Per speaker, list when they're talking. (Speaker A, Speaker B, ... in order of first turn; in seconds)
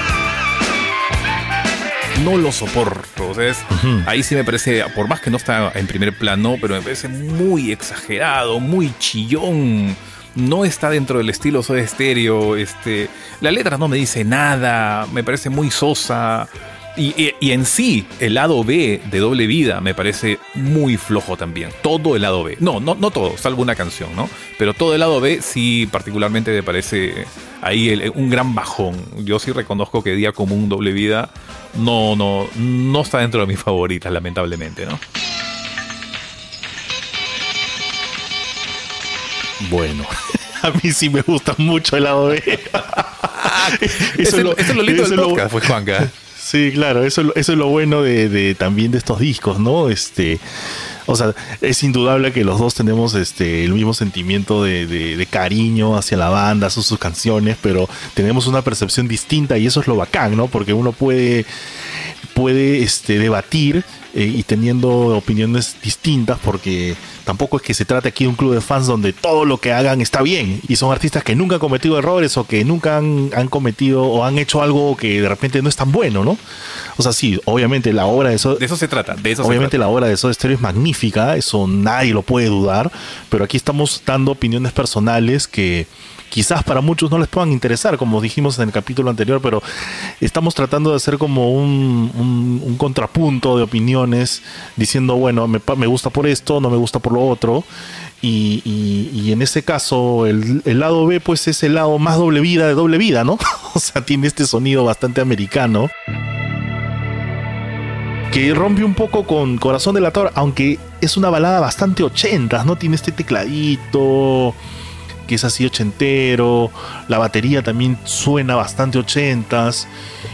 Speaker A: 2.1-35.0, 43.2-46.1, 78.5-79.8
Speaker B: 3.7-4.1, 39.6-50.4, 51.1-61.5, 62.3-76.4, 77.0-78.6, 79.4-89.6, 90.2-97.7, 98.2-105.9, 108.3-114.6, 115.2-119.9